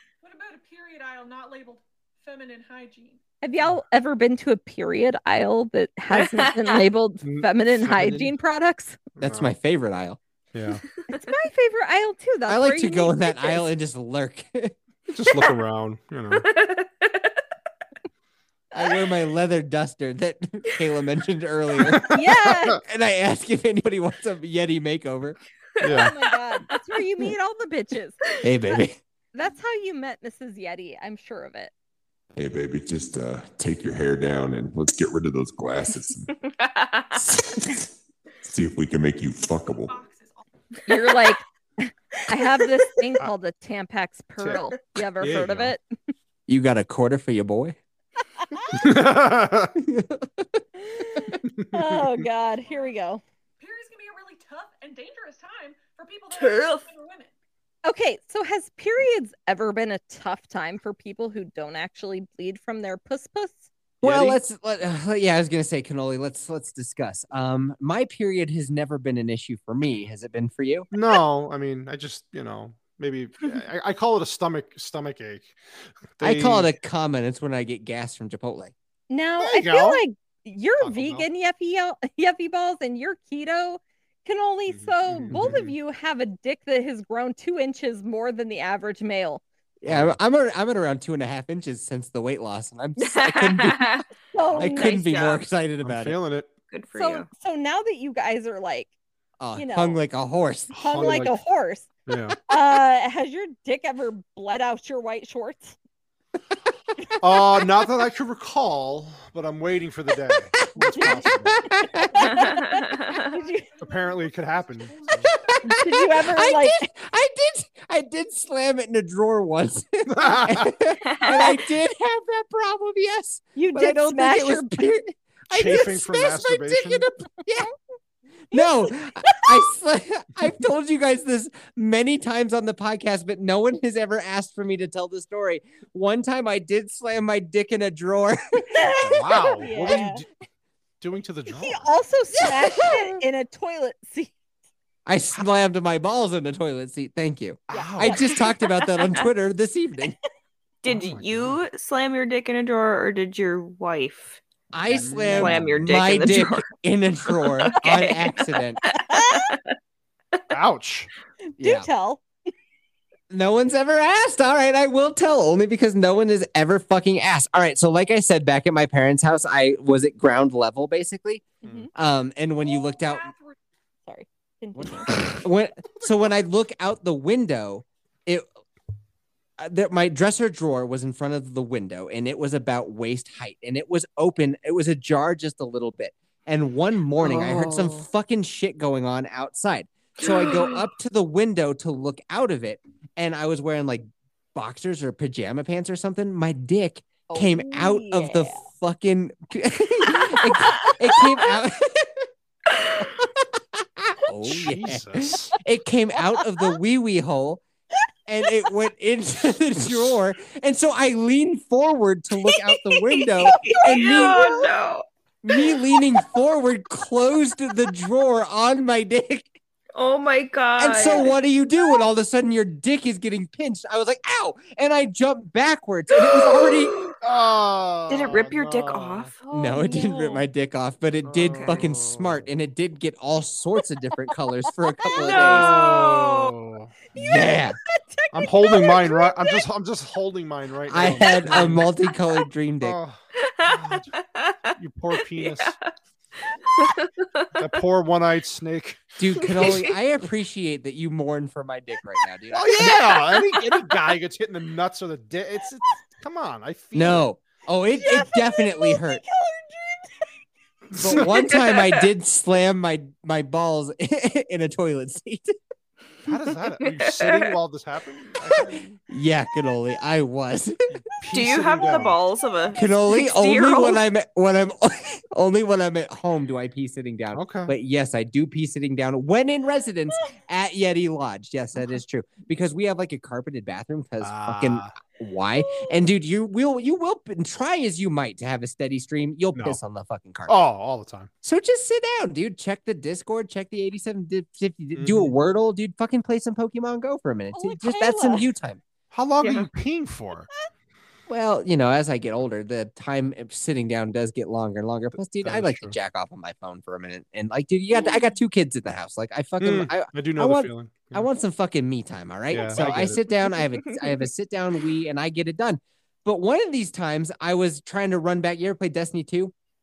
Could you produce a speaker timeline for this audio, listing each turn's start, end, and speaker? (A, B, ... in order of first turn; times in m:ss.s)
0:00.2-0:03.2 A
0:03.4-0:09.0 B
0:06.1-0:06.8 C
0:07.2-0:08.3 D
0:09.2-0:09.5 D
0:09.2-0:10.2 E
0:10.5-0:10.8 D
0:11.1-0:13.6 B
0:12.5-0:14.8 E
0:15.1-0:16.5 D
0:16.4-0:17.4 C
0:18.7-0:22.2 E
0:21.9-0:22.2 D
0:22.1-0:22.8 B
0:22.8-0:25.4 E
0:25.8-0:26.1 D
0:25.8-0:28.8 B
0:28.4-0:29.0 E
0:29.3-0:31.7 B
0:32.4-0:36.3 F
0:36.4-0:37.3 C
0:38.4-0:40.0 F
0:39.9-0:40.4 A
0:40.9-0:45.8 B
0:40.9-0:41.4 C
0:45.2-0:45.8 D
0:46.5-0:47.8 E
0:48.4-0:48.9 B
0:48.7-0:49.8 D
0:49.8-0:50.6 E
0:50.8-0:53.2 B
0:51.4-0:52.2 D
0:52.6-0:53.0 A
0:53.6-0:57.3 A
0:56.3-0:56.9 C
0:57.8-1:03.7 B
1:04.0-1:04.4 D
1:04.0-1:10.9 E
1:10.9-1:15.6 D
1:16.2-1:16.7 D
1:16.2-1:18.7 E
1:19.1-1:29.4 B
1:19.4-1:20.0 D
1:20.8-1:21.3 D
1:24.7-1:25.8 D
1:29.8-1:34.0 E
1:29.8-1:30.2 D
1:33.0-1:34.1 C
1:34.3-1:35.1 B
1:34.6-1:36.2 E
1:34.6-1:35.4 C
1:35.8-1:36.5 D
1:36.7-1:37.3 C
1:37.0-1:38.9 B
1:39.4-1:40.7 E
1:39.6-1:40.0 B
1:40.7-1:41.4 D
1:40.8-1:41.9 B
1:42.1-1:42.4 D
1:42.5-1:45.8 B
1:47.2-1:51.8 D
1:50.5-1:52.3 E
1:51.0-1:53.7 B
1:52.4-1:53.2 C
1:53.0-1:55.8 A
1:53.8-1:55.3 D
1:55.2-2:07.7 E
1:55.7-1:56.9 B
2:00.0-2:00.8 D
2:01.1-2:01.5 C
2:03.6-2:04.8 B
2:05.5-2:07.1 D
2:08.5-2:19.6 E
2:08.5-2:09.5 B
2:18.7-2:20.2 B
2:19.0-2:20.3 D
2:21.0-2:21.9 D
2:21.5-2:24.3 B
2:22.4-2:22.9 E
2:25.1-2:30.2 E
2:27.7-2:28.3 D
2:27.7-2:28.4 B
2:30.8-2:34.4 C
2:30.9-2:31.5 D
2:34.7-2:38.8 E
2:34.9-2:36.0 D
2:35.3-2:36.7 C
2:37.3-2:38.3 C
2:38.9-2:39.7 C
2:39.0-2:39.5 B
2:40.5-2:41.1 D
2:41.6-2:41.9 E
2:41.6-2:42.2 B
2:43.3-2:53.3 E
2:51.6-2:51.9 B
2:51.6-2:51.9 D
2:52.6-2:53.6 A
2:54.1-2:55.1 B
2:54.8-2:58.5 E
2:59.6-3:22.3 E
3:07.2-3:08.1 C
3:10.2-3:10.8 C
3:17.3-3:18.6 B
3:22.8-3:23.0 C
3:23.8-3:27.6 E
3:24.5-3:25.6 D
3:28.3-3:34.6 E
3:33.1-3:35.0 C
3:33.7-3:34.7 B
3:35.4-3:39.5 E
3:40.0-3:41.3 C
3:40.8-3:47.0 E
3:46.4-3:47.2 C
3:47.2-3:49.3 D
3:48.1-3:50.4 C
3:49.5-3:55.8 E
3:51.2-3:52.4 D
3:51.5-3:51.8 C
3:55.1-3:56.5 C
3:55.3-3:56.9 D
3:57.2-3:57.8 E
3:57.2-3:59.6 B
3:58.3-4:01.9 D
4:00.9-4:03.0 E
4:02.8-4:04.1 D
4:03.4-4:04.7 C
4:04.8-4:05.8 D
4:05.4-4:05.9 C
4:06.7-4:07.7 C
4:07.6-4:09.6 D
4:09.2-4:13.1 E
4:09.5-4:09.9 C
4:12.5-4:17.3 D
4:12.9-4:13.4 C
4:16.9-4:19.2 E
4:18.0-4:20.2 B
4:20.9-4:21.3 D
4:21.0-4:25.6 E
4:21.5-4:21.9 C
4:26.3-4:29.0 D
4:26.8-4:27.5 C
4:28.6-4:30.8 E
4:31.2-4:32.2 D
4:31.3-4:34.0 C
4:32.8-4:50.6 E
4:37.3-4:37.7 D
4:44.2-4:45.0 D
4:50.5-4:51.3 D
4:51.4-4:58.8 E
4:55.0-4:55.3 D
4:57.5-4:58.5 B
4:59.1-5:00.5 D
4:59.4-4:59.7 C
5:01.3-5:19.5 E
5:05.2-5:06.0 D
5:09.6-5:11.3 D
5:12.5-5:13.2 D
5:13.8-5:14.1 C